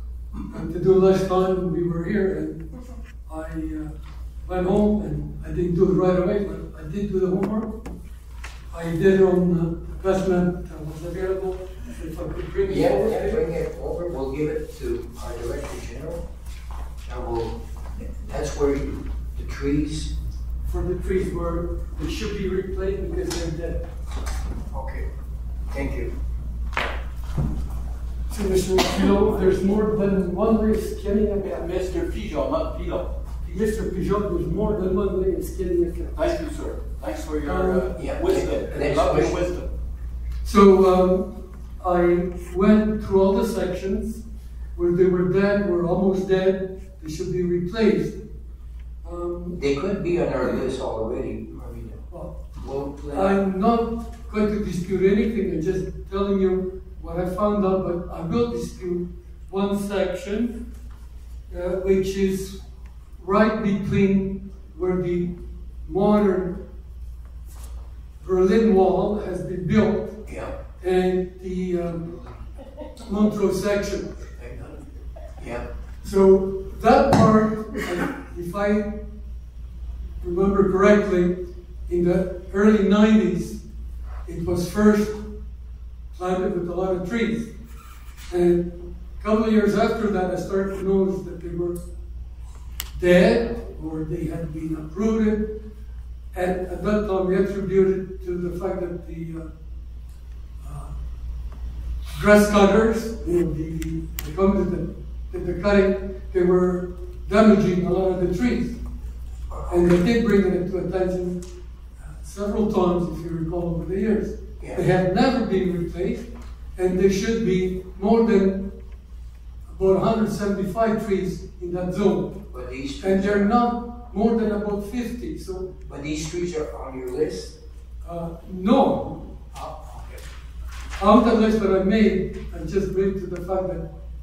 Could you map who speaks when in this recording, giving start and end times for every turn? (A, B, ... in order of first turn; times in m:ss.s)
0:00.5-0:02.7 A
0:03.3-0:03.9 A
0:04.4-0:07.8 A
0:08.7-0:13.4 A
0:12.6-0:16.2 B
0:17.0-0:20.1 B
0:20.7-0:23.8 A
0:24.7-0:25.1 B
0:25.7-0:26.1 B
0:28.3-0:31.7 A
0:31.4-0:33.1 C
0:33.4-0:36.4 A
0:36.2-0:39.7 C
0:37.4-0:37.9 A
0:38.0-0:39.4 B
0:40.4-0:44.2 A
0:44.8-0:48.2 A
0:49.0-0:49.6 A
0:49.6-0:53.4 B
0:53.1-1:00.6 A
1:01.5-1:02.6 A
1:03.2-1:06.6 A
1:08.2-1:10.2 A
1:10.3-1:10.6 B
1:10.8-1:12.2 A
1:13.0-1:14.1 A
1:14.4-1:14.8 B
1:15.4-1:15.7 B
1:16.0-1:19.0 A
1:20.2-1:23.6 A
1:24.3-1:25.3 A
1:26.1-1:27.5 A
1:28.3-1:31.8 A
1:32.9-1:35.6 A
1:36.3-1:39.5 A
1:40.6-1:40.9 A
1:42.1-1:48.8 A
1:49.5-1:49.9 B
1:49.7-1:51.4 A
1:52.0-1:58.8 A
1:59.7-2:02.4 A
2:02.5-2:03.5 B
2:03.0-2:05.7 A
2:05.9-2:07.6 B
2:08.0-2:09.3 A
2:09.5-2:10.2 B
2:11.0-2:13.9 A